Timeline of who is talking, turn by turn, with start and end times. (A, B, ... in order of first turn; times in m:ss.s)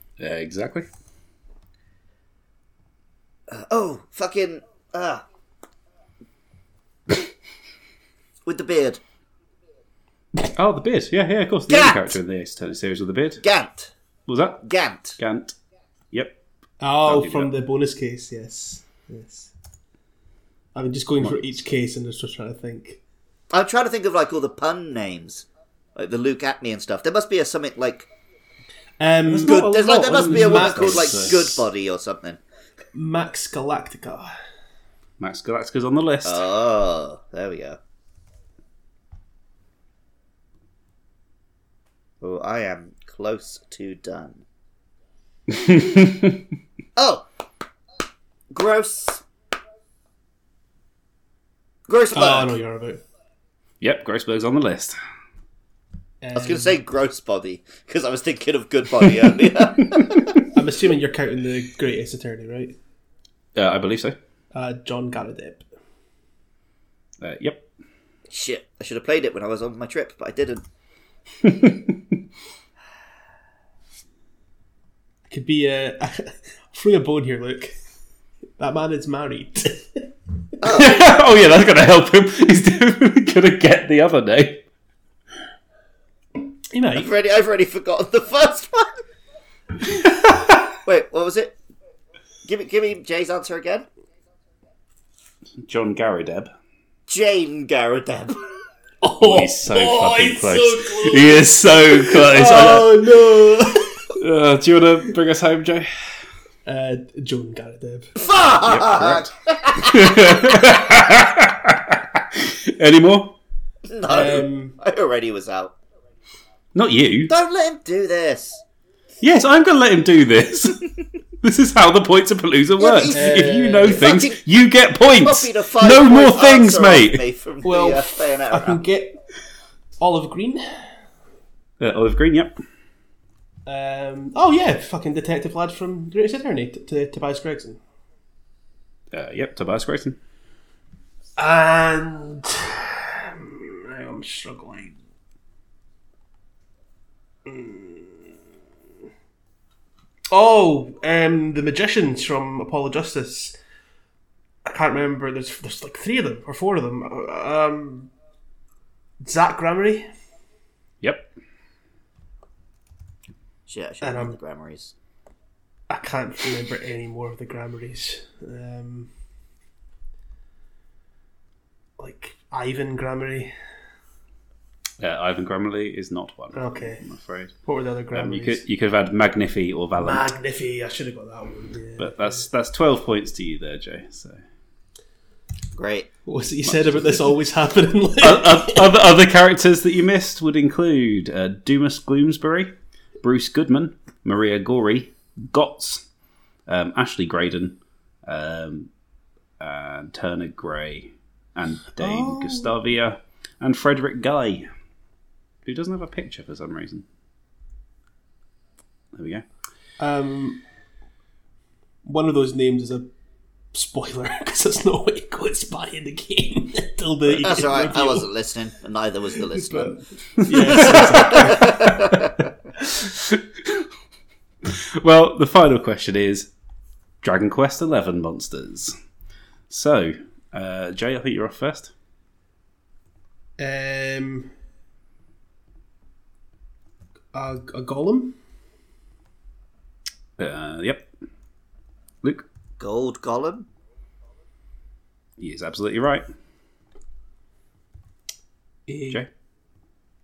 0:00.2-0:00.9 A
0:03.5-0:05.2 B
0:08.4-0:09.0 B
0:10.5-0:13.4 A
0:11.7-0:12.2 B
0:13.4-0:13.9 B
0:14.3-0:14.6 A
0:14.6-0:15.2 B
0:15.2-0:15.6 A
0:16.8-0:19.5 C
0:17.0-0:17.5 A
0:20.7-0:23.0 C
0:21.2-0:21.7 A
0:23.5-0:28.1 B
0:29.0-0:31.4 C
0:29.3-0:31.6 A
0:29.4-0:32.4 B
0:32.9-0:34.3 C
0:35.2-0:36.4 A
0:36.2-0:37.8 B
0:42.2-0:44.4 B
0:45.5-0:46.5 A
0:47.0-0:47.2 B
0:48.5-0:49.2 B
0:51.9-0:52.5 B
0:52.1-0:53.0 C
0:53.8-0:55.0 A
0:56.2-0:56.8 C
0:56.3-1:00.4 B
1:00.5-1:02.8 C
1:03.5-1:04.2 A
1:04.5-1:05.7 C
1:07.2-1:07.7 A
1:08.3-1:10.6 B
1:11.4-1:12.2 A
1:15.3-1:17.7 C
1:18.6-1:20.1 C
1:20.6-1:21.1 B
1:20.7-1:24.6 A
1:26.7-1:27.1 C
1:26.9-1:29.0 B
1:30.8-1:31.6 B
1:32.4-1:33.9 B
1:35.6-1:36.5 A
1:37.1-1:38.4 B
1:39.0-1:44.1 C
1:39.2-1:43.0 A
1:44.2-1:45.9 A
1:46.6-1:48.3 C
1:48.2-1:50.5 B
1:48.6-1:53.3 A
1:53.9-1:55.7 B
1:54.0-1:54.8 C
1:56.7-1:57.3 A
1:57.3-1:58.6 B
1:59.2-2:00.8 A
2:01.4-2:07.2 A
2:02.8-2:04.4 B
2:03.1-2:04.0 C
2:05.1-2:08.8 B
2:07.6-2:09.2 C
2:10.0-2:10.9 C
2:11.8-2:12.6 A
2:13.6-2:17.8 C
2:19.1-2:20.2 A
2:21.4-2:25.0 C
2:27.4-2:28.2 C
2:30.3-2:33.6 C
2:34.6-2:38.1 C
2:39.2-2:40.1 C
2:41.0-2:41.3 A
2:43.7-2:44.9 B
2:44.0-2:44.4 C
2:45.9-2:49.1 C
2:52.0-2:53.5 C
2:55.0-2:57.5 A
2:56.5-2:57.0 C
2:57.6-2:58.6 C
2:58.1-3:00.2 A
3:00.0-3:02.5 C
3:02.0-3:04.4 A
3:05.7-3:06.1 B
3:06.2-3:08.9 C
3:06.6-3:07.3 A
3:08.2-3:16.0 A
3:16.7-3:18.9 A
3:19.6-3:24.7 A
3:22.0-3:22.7 C
3:25.6-3:27.0 A
3:29.1-3:29.4 A
3:30.0-3:30.6 C
3:32.0-3:33.1 C
3:33.7-3:38.3 C
3:37.3-3:40.0 B
3:39.5-3:41.9 C
3:40.7-3:41.0 A
3:40.7-3:42.4 B
3:42.9-3:43.9 A
3:44.6-3:46.5 A
3:47.2-3:48.9 A
3:49.7-3:51.9 A
3:53.6-3:54.5 C
3:57.3-3:58.4 C
4:00.4-4:01.1 A
4:02.8-4:03.7 B
4:05.4-4:06.2 A
4:08.9-4:09.2 C